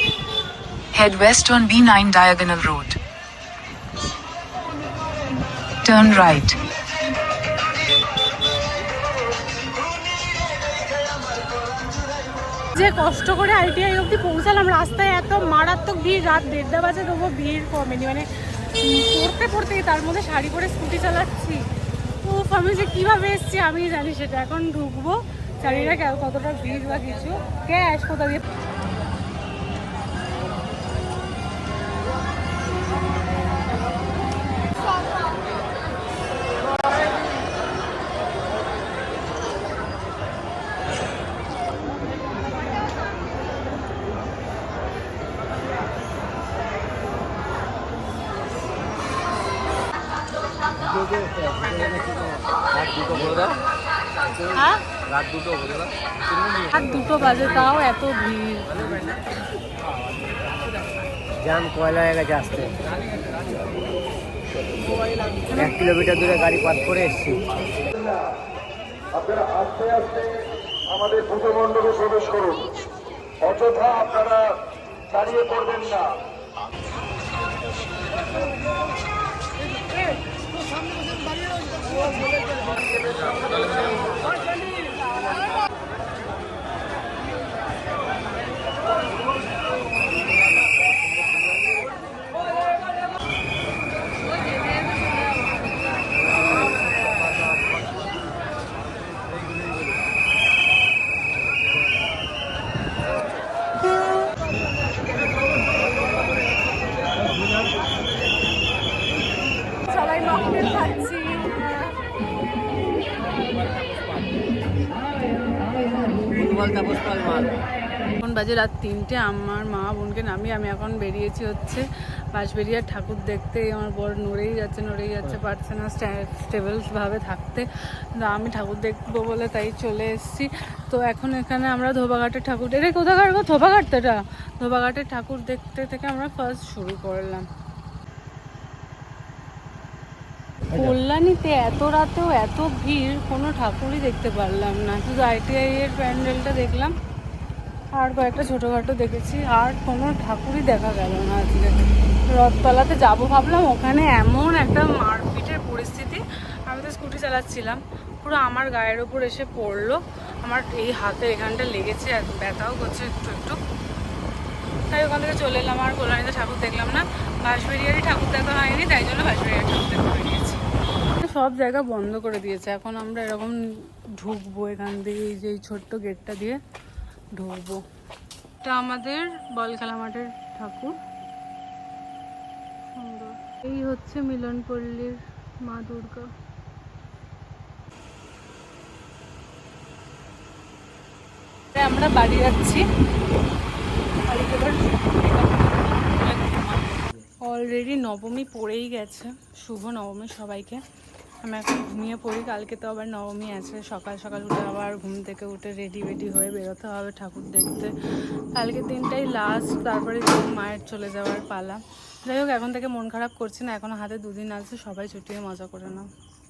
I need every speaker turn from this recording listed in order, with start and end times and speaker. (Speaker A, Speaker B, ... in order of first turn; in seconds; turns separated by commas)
Speaker A: 0.9-3.0, Speaker A: 5.8-6.6, Speaker B: 12.7-18.3, Speaker B: 18.8-21.6, Speaker B: 22.2-28.5, Speaker C: 51.0-53.6, Speaker B: 54.6-54.8, Speaker C: 55.1-55.9, Speaker B: 56.7-59.1, Speaker C: 61.4-62.7, Speaker C: 65.5-67.5, Speaker D: 69.4-70.2, Speaker D: 71.0-72.5, Speaker D: 73.6-74.3, Speaker D: 75.4-75.9, Speaker B: 109.9-111.9, Speaker C: 116.2-117.6, Speaker B: 118.2-127.7, Speaker B: 128.2-137.5, Speaker B: 140.7-146.9, Speaker B: 148.0-163.6, Speaker B: 164.9-173.6, Speaker B: 174.2-176.6, Speaker B: 177.4-177.8, Speaker B: 178.6-181.0, Speaker B: 183.0-186.3, Speaker B: 191.7-192.8, Speaker B: 194.2-194.9, Speaker C: 196.2-197.0, Speaker B: 197.4-200.8, Speaker B: 201.4-207.9, Speaker B: 208.5-216.1